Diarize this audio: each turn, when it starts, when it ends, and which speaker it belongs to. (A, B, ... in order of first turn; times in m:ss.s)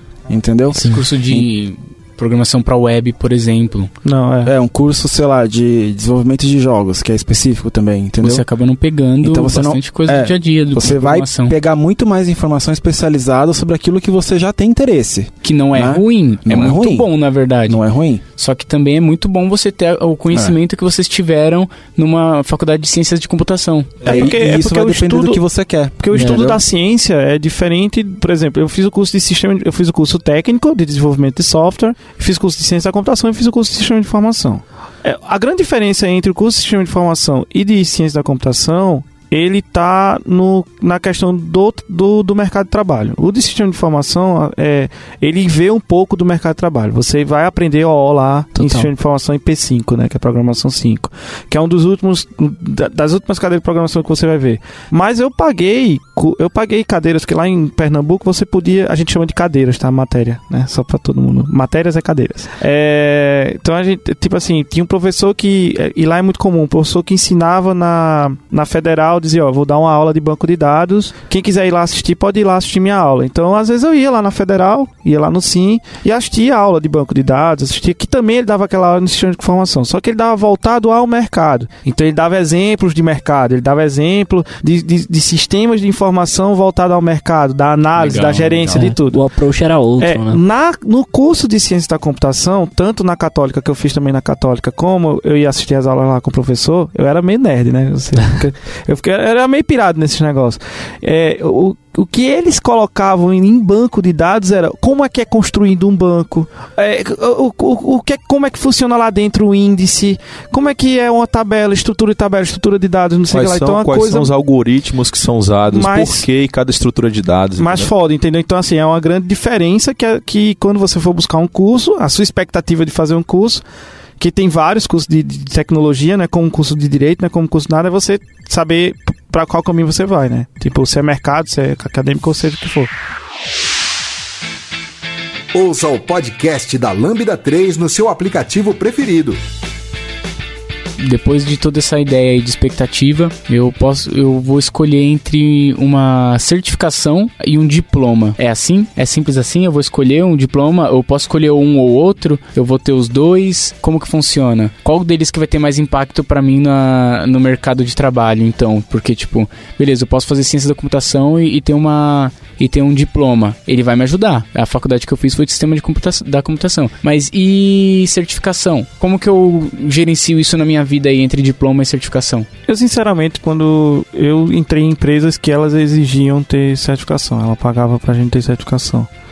0:00.3-0:01.5 A
0:00.8-0:03.9 B
0:04.0-0:04.5 C
0:04.4-0:08.4 A
0:08.2-0:11.6 B
0:09.2-0:17.1 A
0:15.4-0:17.8 B
0:17.7-0:18.2 A
0:18.4-0:24.2 B
0:20.3-0:20.6 A
0:24.0-0:26.6 A
0:24.0-0:25.4 C
0:26.0-1:29.2 C
0:48.6-0:48.9 D
1:28.0-1:28.9 B
1:28.8-1:30.4 D
1:30.0-1:54.3 C
1:53.3-1:57.9 E
1:55.7-1:56.3 C
1:57.6-2:03.6 C
2:04.2-2:12.9 C
2:15.5-2:19.4 F
2:21.0-2:52.5 B
2:52.7-2:59.1 C